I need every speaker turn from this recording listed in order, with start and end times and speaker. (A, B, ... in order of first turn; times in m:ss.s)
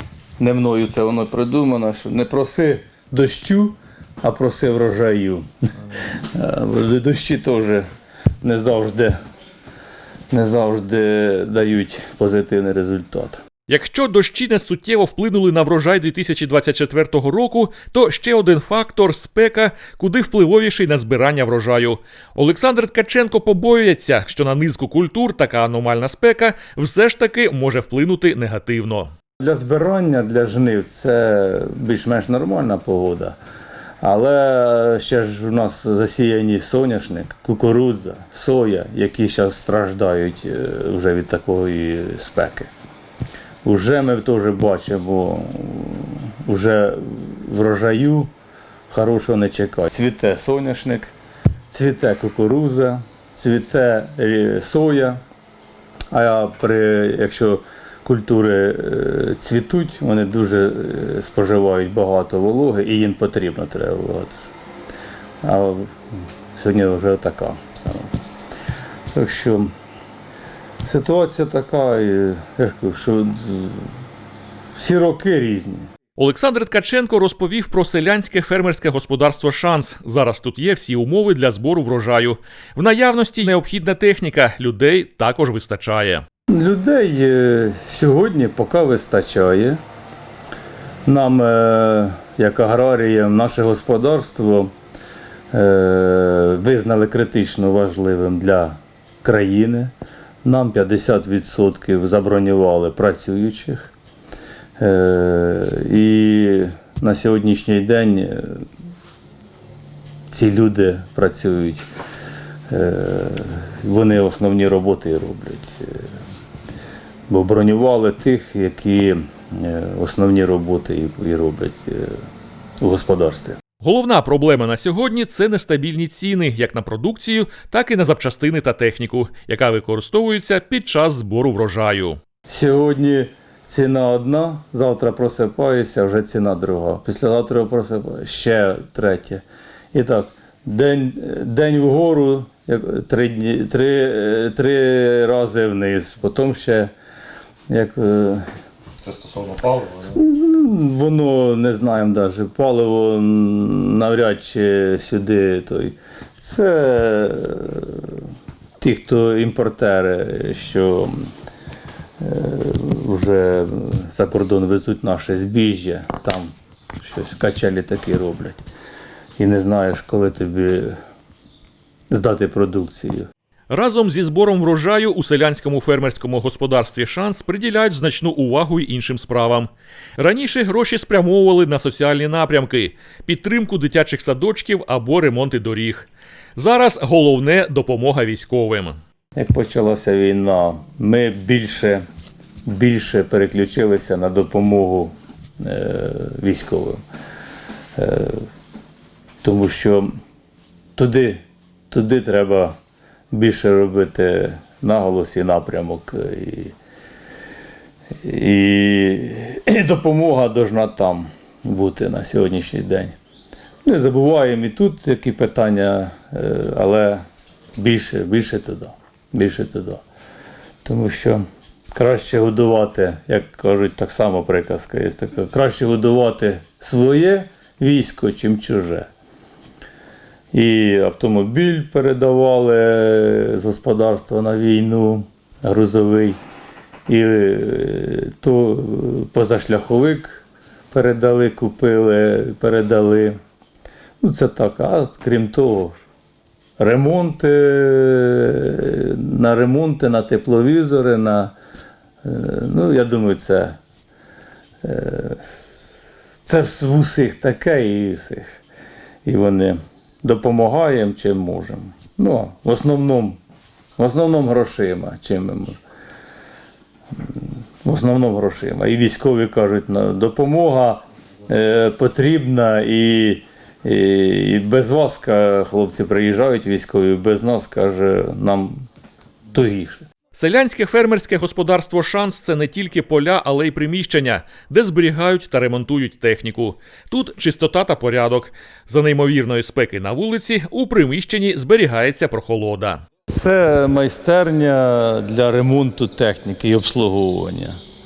0:00.4-0:07.8 A
0:08.4-0:09.2 A
0:10.3-0:13.4 A
0:13.7-0:29.1 B
0:29.4-0:33.4 A
0:34.0-0:42.7 A
0:43.6-0:48.3 A
0:48.9-0:51.1 A
0:51.7-0:55.2 A
0:56.1-1:04.5 A
1:05.4-1:06.0 A
1:06.5-1:08.1 A
1:09.1-1:09.7 A
1:10.8-1:13.9 A
1:14.8-1:15.9 A
1:16.2-1:26.2 B
1:26.5-1:29.8 A
1:31.0-1:34.7 A
1:35.5-1:43.9 A
1:44.8-1:48.7 A
1:50.3-1:51.9 A
1:52.7-1:56.1 A
1:57.3-2:02.2 A
2:02.8-2:03.6 A
2:03.8-2:12.2 B
2:12.5-2:26.9 A
2:27.7-2:28.5 A
2:29.6-2:38.2 A
2:38.8-2:41.3 A
2:42.2-2:48.7 A
2:49.4-2:51.0 A
2:52.1-2:53.3 A
2:53.7-3:09.0 B
3:09.4-3:12.0 A
3:12.7-3:17.0 A
3:18.0-3:18.5 A
3:19.4-3:20.1 A
3:21.0-3:22.8 A
3:23.3-3:26.8 A
3:28.2-3:33.2 A
3:33.8-3:37.2 A
3:37.8-3:40.0 A
3:40.8-3:49.1 A
3:50.5-3:56.4 A
3:57.1-4:03.4 A
4:04.2-4:06.0 A
4:06.8-4:11.6 A
4:12.2-4:13.8 A
4:14.8-4:15.6 A
4:16.4-4:18.6 A
4:19.2-4:23.4 A
4:24.0-4:25.8 A
4:27.1-4:38.9 A
4:39.5-4:40.0 A
4:40.3-4:53.0 B
4:53.3-4:57.8 A